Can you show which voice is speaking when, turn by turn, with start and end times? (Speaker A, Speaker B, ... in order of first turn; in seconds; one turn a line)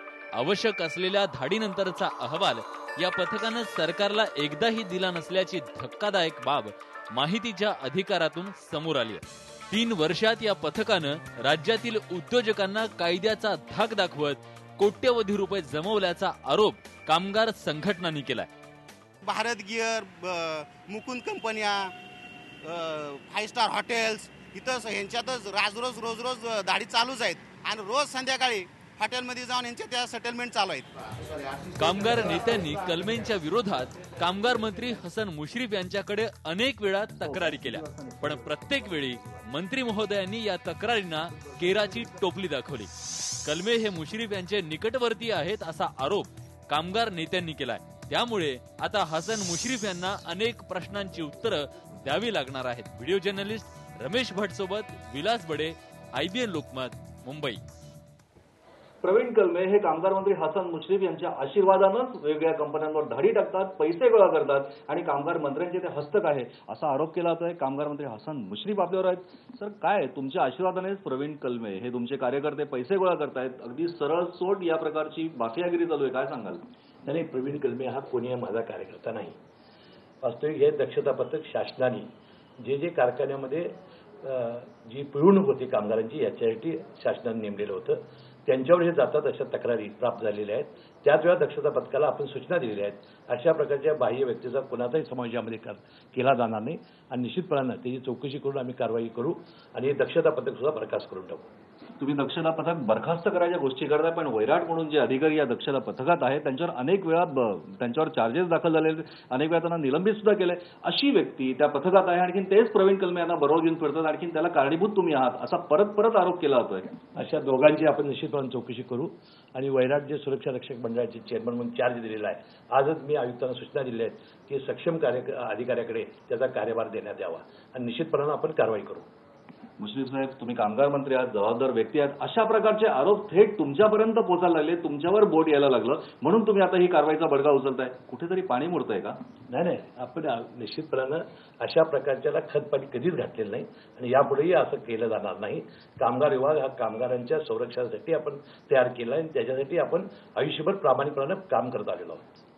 Speaker A: 0.3-18.5
Speaker B: 19.2-21.9
Speaker B: 22.6-31.0
Speaker A: 31.8-42.9
Speaker C: 37.3-38.2
Speaker A: 43.4-57.6
Speaker C: 59.0-76.6
Speaker D: 77.0-79.4
Speaker D: 80.2-101.5
Speaker C: 102.0-117.0
Speaker D: 117.2-129.1
Speaker C: 129.8-139.2
Speaker D: 139.5-152.2